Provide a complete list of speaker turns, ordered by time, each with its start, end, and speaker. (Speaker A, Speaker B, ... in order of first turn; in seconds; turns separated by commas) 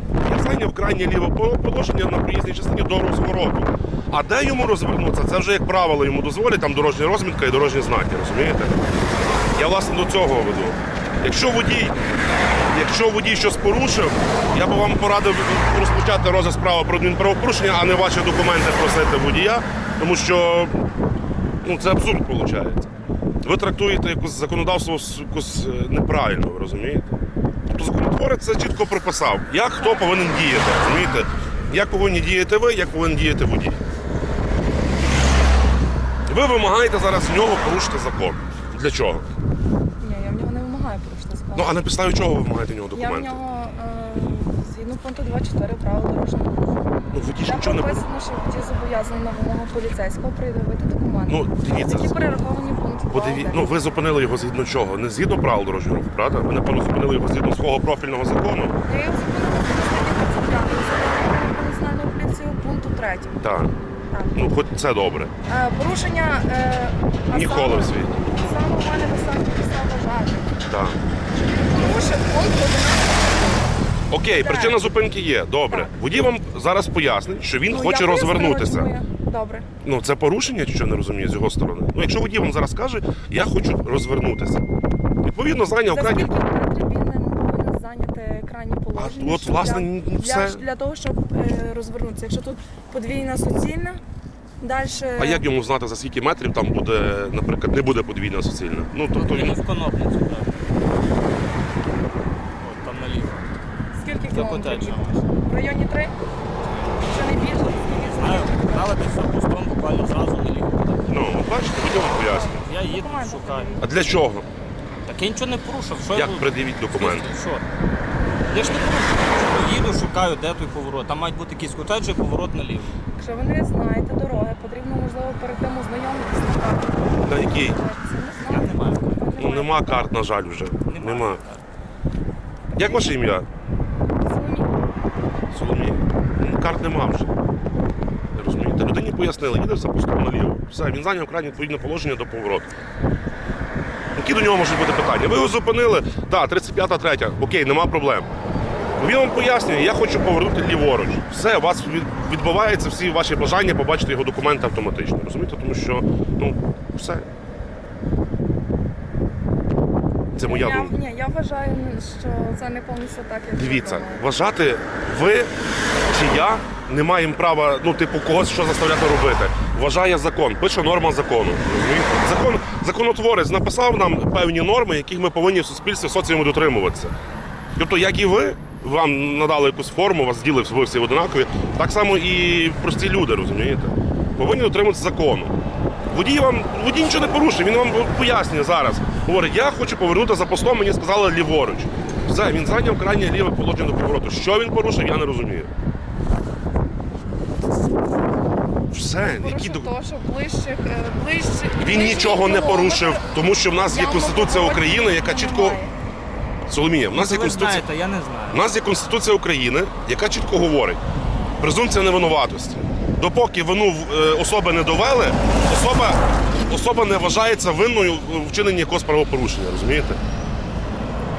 Speaker A: 0.2-8.8, Speaker A: 9.5-12.0, Speaker A: 12.7-20.8, Speaker A: 21.6-22.9, Speaker A: 23.4-33.8, Speaker B: 29.8-31.1, Speaker A: 36.3-39.2, Speaker B: 40.0-41.8, Speaker A: 41.5-43.4, Speaker B: 42.9-46.8, Speaker A: 47.1-48.0, Speaker B: 47.4-53.7, Speaker A: 51.3-52.2, Speaker A: 53.1-58.8, Speaker B: 58.8-63.5, Speaker A: 63.4-63.7, Speaker B: 64.1-64.4, Speaker A: 64.3-65.3, Speaker B: 65.5-70.5, Speaker A: 67.3-68.3, Speaker A: 70.7-71.0, Speaker B: 71.3-73.7, Speaker A: 74.1-78.9, Speaker B: 74.2-75.0, Speaker B: 75.7-75.9, Speaker B: 77.7-79.7, Speaker A: 79.8-84.6, Speaker A: 85.2-86.3, Speaker B: 85.9-94.0, Speaker A: 88.9-90.6, Speaker B: 94.6-95.4, Speaker A: 95.2-99.6, Speaker C: 99.1-100.6, Speaker C: 102.6-103.5, Speaker B: 104.0-106.2, Speaker C: 104.3-105.3, Speaker C: 106.6-107.3, Speaker B: 107.0-109.0, Speaker C: 108.1-111.3, Speaker A: 111.1-112.6, Speaker B: 112.0-113.9, Speaker C: 112.6-113.8, Speaker A: 113.8-114.5, Speaker C: 115.0-117.6, Speaker A: 116.1-117.3, Speaker C: 118.4-123.0, Speaker B: 123.2-130.1, Speaker A: 127.2-127.8, Speaker C: 128.4-129.3, Speaker A: 129.4-131.4, Speaker C: 130.8-131.6, Speaker B: 132.7-133.2, Speaker A: 132.8-133.5, Speaker B: 134.2-134.7, Speaker A: 135.5-137.3, Speaker A: 138.3-142.7, Speaker A: 144.1-148.3, Speaker A: 149.0-157.3, Speaker A: 160.3-161.0, Speaker B: 160.4-164.3, Speaker A: 163.6-165.5, Speaker A: 166.1-177.1, Speaker A: 177.8-185.5, Speaker A: 186.1-195.7, Speaker A: 198.9-199.9, Speaker B: 199.2-203.3, Speaker A: 201.8-205.8, Speaker B: 203.8-205.9, Speaker A: 206.7-207.8, Speaker C: 207.1-208.6, Speaker A: 208.5-211.0, Speaker A: 211.6-220.2